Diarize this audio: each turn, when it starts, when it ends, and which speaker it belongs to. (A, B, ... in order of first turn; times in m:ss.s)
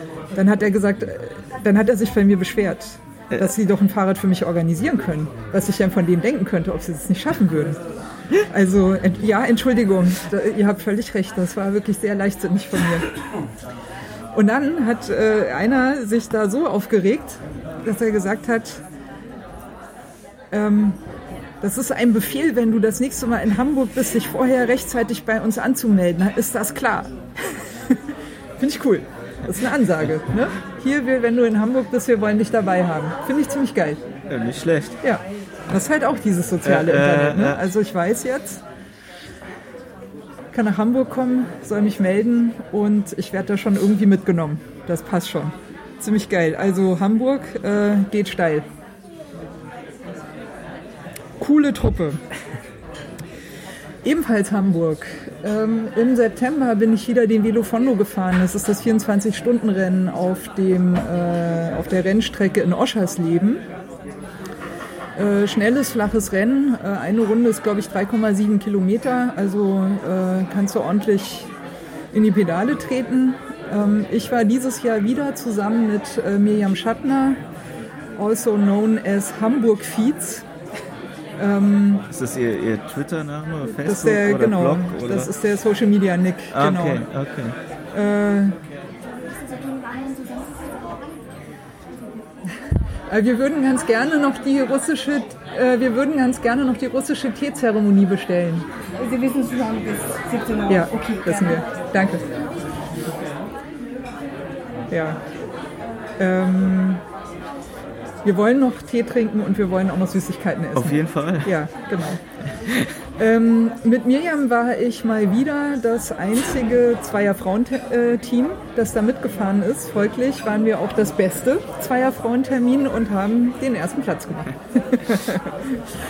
0:00.3-0:07.8 A
0:08.5-0:13.1 A
0:14.3-0:18.8 A
0:20.5-0:21.0 A
0:21.6-0:28.0 A
0:28.6-0:34.0 A
0:34.3-0:35.0 B
0:35.0-0:38.6 A
0:36.6-0:37.6 B
0:40.5-0:48.6 A
0:51.4-0:52.2 A
0:54.0-1:03.6 A
1:05.2-1:11.5 A
1:12.1-1:17.4 A
1:18.2-1:20.4 A
1:21.4-1:22.0 A
1:22.1-1:25.3 B
1:23.7-1:27.0 A
1:26.5-1:27.6 B
1:27.9-1:28.6 A
1:29.2-1:31.0 C
1:33.1-1:38.6 A
1:39.0-1:41.7 C
1:40.7-1:42.2 A
1:44.9-1:45.2 A
1:46.2-1:47.0 A
1:48.2-1:52.2 A
1:50.7-1:51.5 B
1:53.2-2:05.7 A